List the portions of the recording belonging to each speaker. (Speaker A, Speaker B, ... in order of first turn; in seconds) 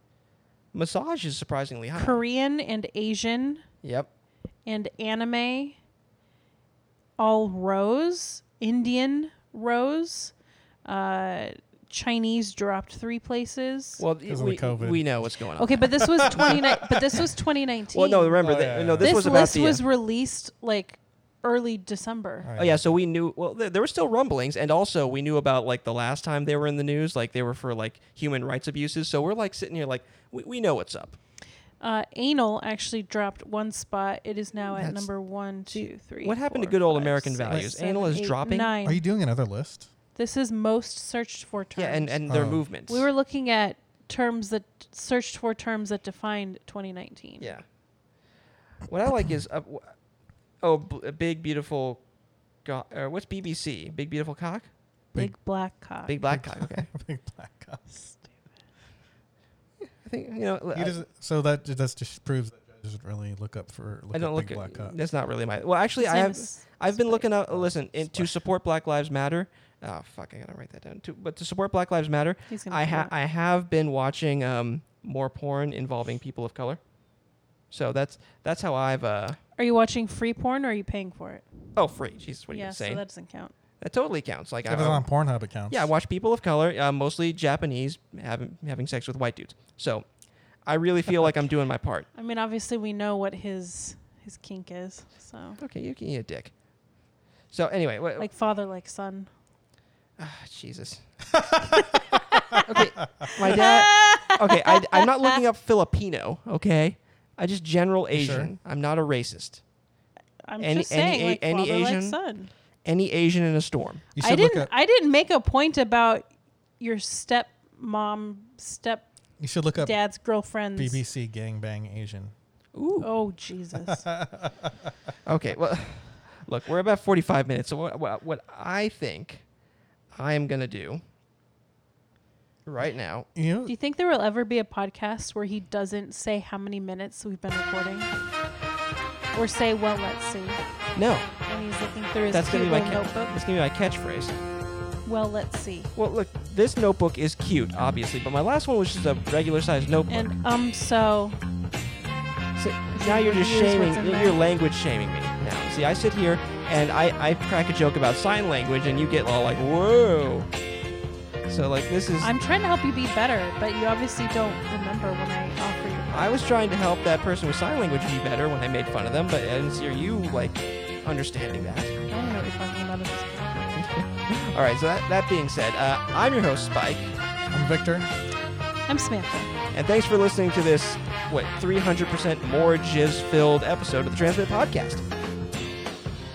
Speaker A: 0.7-2.2, 3.8-4.1, 14.0-16.6, 17.9-19.8, 22.6-31.2, 34.7-35.1, 35.7-38.7, 41.8-43.1, 48.9-49.9, 50.6-52.0, 52.6-54.7, 56.1-56.9, 60.0-61.0, 64.1-76.8, 77.7-79.4, 81.8-83.0, 83.8-85.0, 85.7-90.1, 90.6-92.1, 95.6-96.5, 97.5-98.3, 100.2-101.0, 102.6-109.6, 110.6-112.2, 112.8-114.0, 122.7-123.1, 125.2-129.4, 130.1-131.0, 132.7-133.3, 140.9-141.3, 142.3-144.3, 145.9-150.3, 152.6-160.5, 161.5-162.3, 166.1-171.9, 173.7-177.1, 179.7-185.0
Speaker B: 1.9-3.6, 4.7-5.8, 7.2-10.3, 10.8-14.0, 15.6-22.5, 31.8-39.0, 40.1-47.5, 55.1-56.1, 57.9-58.2, 66.0-67.2, 72.5-73.1, 79.6-81.7, 82.5-83.5, 92.1-95.6, 98.2-99.3, 103.4-105.4, 110.4-112.5, 114.2-119.1, 119.8-121.0, 123.0-124.1, 133.7-138.1, 139.3-140.6, 141.4-143.4, 145.0-145.9, 150.1-151.4, 152.9-154.4, 162.2-166.4, 172.1-173.9, 178.9-179.5
Speaker C: 14.2-15.1, 16.0-17.3, 18.4-19.5, 22.4-22.9, 38.8-39.9, 42.3-42.6, 56.2-57.8, 60.7-65.0, 67.5-68.3, 84.7-85.9, 101.3-102.6, 108.1-108.5, 114.1-114.7, 119.4-120.0, 120.8-122.3, 124.0-124.7, 133.3-133.7, 177.5-178.1